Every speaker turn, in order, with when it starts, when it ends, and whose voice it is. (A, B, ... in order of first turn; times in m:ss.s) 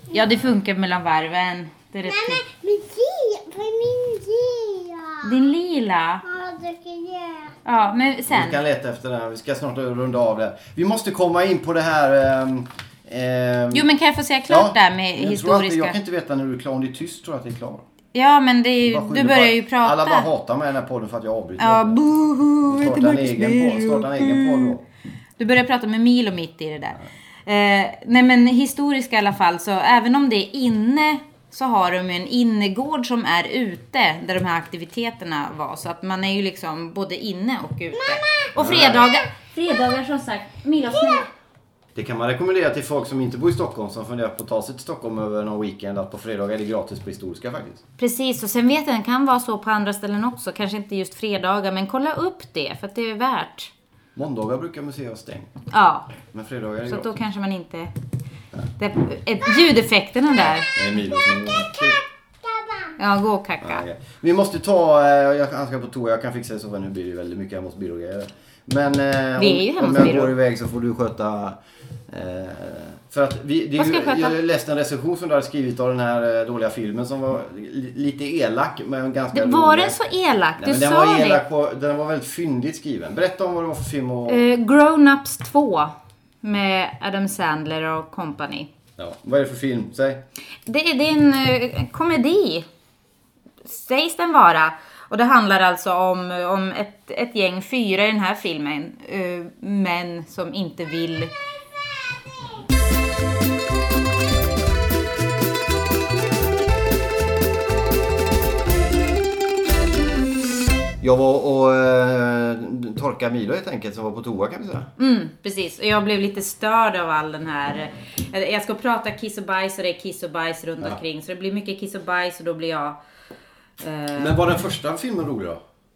0:00.1-0:02.4 A
0:02.1-0:05.5 B
0:05.2-0:06.2 A
0:06.2-0:07.6 B
0:07.6-0:08.6 A
0:08.3-0:13.9 C
0:13.7-0:16.0 A
0:14.5-0:17.8 C
0:18.1-0:20.3 A
0:18.8-0:22.0 C
0:21.6-0:24.8 A
0:22.7-0:24.8 C
0:25.4-0:41.3 A
0:38.0-0:39.8 B
0:38.6-0:39.1 C
0:40.9-0:41.2 B
0:42.0-0:47.8 C
0:48.0-0:53.7 A
0:54.2-0:55.5 C
0:55.7-0:56.1 A
0:56.2-0:57.2 C
0:56.9-0:57.9 A
0:58.8-1:00.7 A
1:00.4-1:02.0 C
1:01.1-1:03.0 B
1:03.0-1:03.8 A
1:03.6-1:20.0 C
1:09.4-1:10.3 A
1:13.8-1:14.4 A
1:19.3-1:21.4 A
1:20.6-1:24.5 C
1:24.3-1:28.7 A
1:29.0-1:30.2 C
1:30.7-1:32.7 A
1:33.6-1:41.3 A
1:51.0-1:54.9 C
1:55.0-2:03.0 A
2:03.8-2:04.4 A
2:04.2-2:05.6 C